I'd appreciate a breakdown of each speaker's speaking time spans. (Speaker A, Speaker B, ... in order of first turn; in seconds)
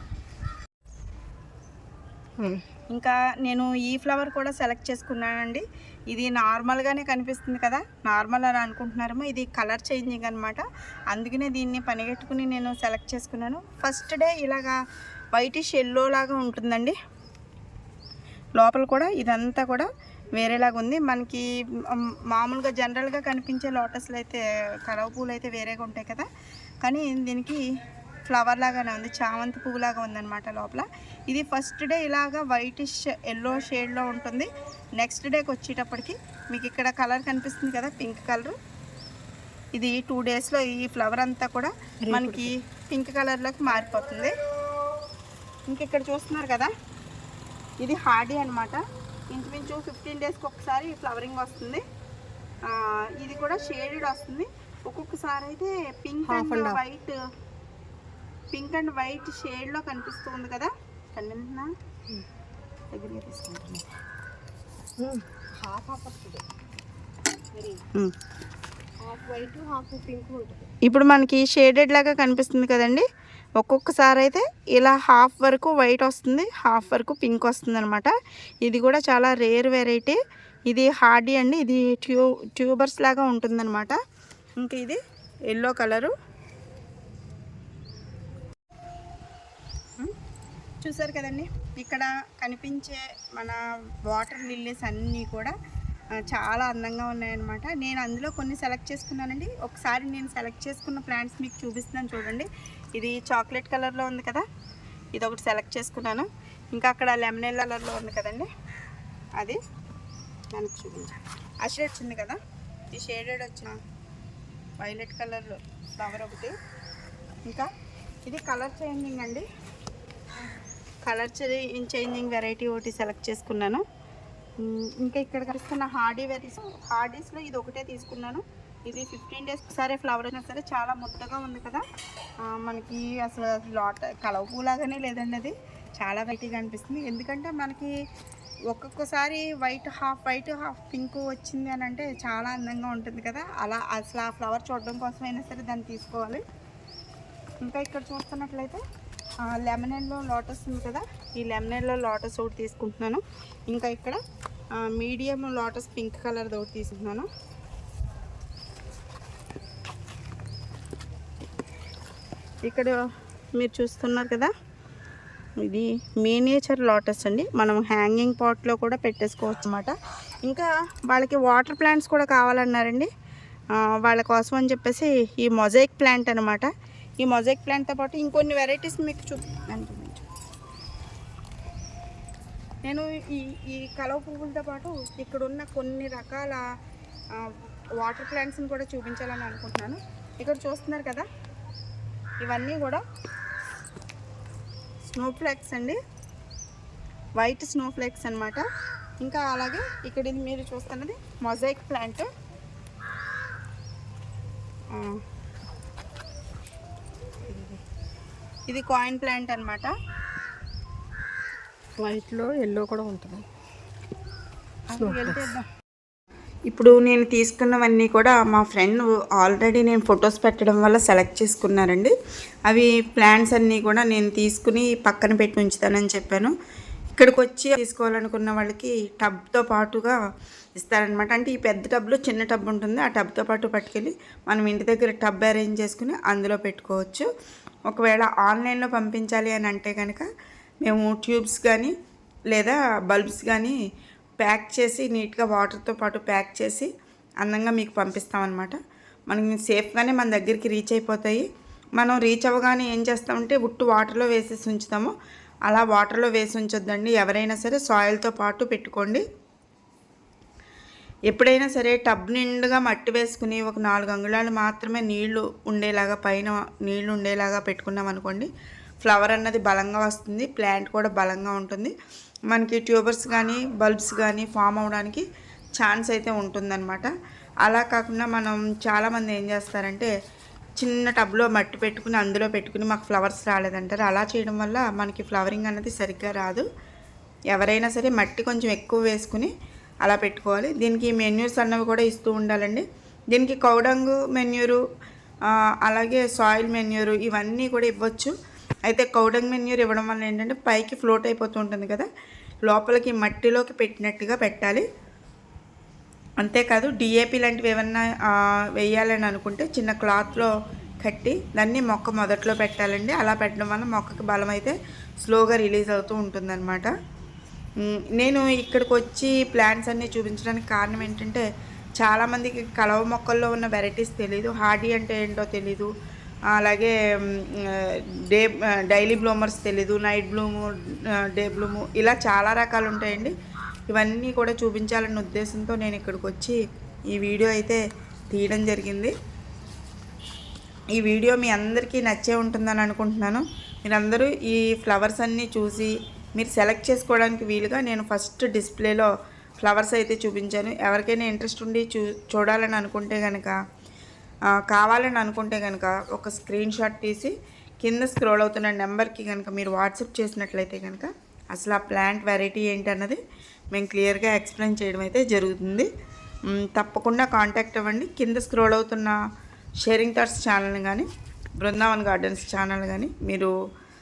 Speaker A: 2.4-2.6, 42.0-42.5, 56.3-56.8, 65.0-66.5, 67.5-67.8, 69.0-70.7, 207.5-207.8, 212.0-213.5, 215.0-215.5
Speaker B: 2.9-14.8, 15.3-16.9, 18.6-26.3, 26.8-27.6, 28.2-38.6, 39.8-44.3, 45.7-46.7, 47.8-51.8, 52.7-57.2, 58.5-61.7, 62.9-63.9, 70.8-73.1, 73.6-84.0, 84.6-86.1, 90.8-95.5, 96.2-104.5, 105.1-108.5, 110.5-112.4, 112.9-113.8, 114.8-116.6, 118.2-119.5, 121.0-123.8, 124.6-131.8, 132.4-137.9, 138.7-146.4, 147.6-148.8, 149.4-154.2, 154.8-157.3, 162.6-163.0, 163.6-164.5, 165.6-173.1, 173.8-180.3, 182.9-186.6, 187.4-191.3, 192.4-193.0, 195.1-196.0, 197.4-198.7, 199.2-202.3, 204.9-205.2, 208.7-209.9, 214.9-215.7, 216.7-222.2, 222.7-226.6, 227.1-230.2, 230.8-237.3, 237.9-240.3, 240.8-241.9, 242.5-243.8, 244.4-246.9, 247.4-251.5, 252.0-255.2, 255.7-259.2, 261.3-268.5, 269.0-271.9, 272.5-275.3, 275.8-277.1, 277.6-280.1, 280.8-286.6, 287.5-294.8, 295.5-298.4, 298.9-302.1, 302.6-304.9, 306.4-316.9, 317.8-321.4, 322.0-325.9, 326.5-333.4, 333.9-336.6, 337.1-339.1, 340.9-353.6, 354.5-363.2, 363.7-365.9, 366.5-369.2, 369.8-371.1, 371.6-373.5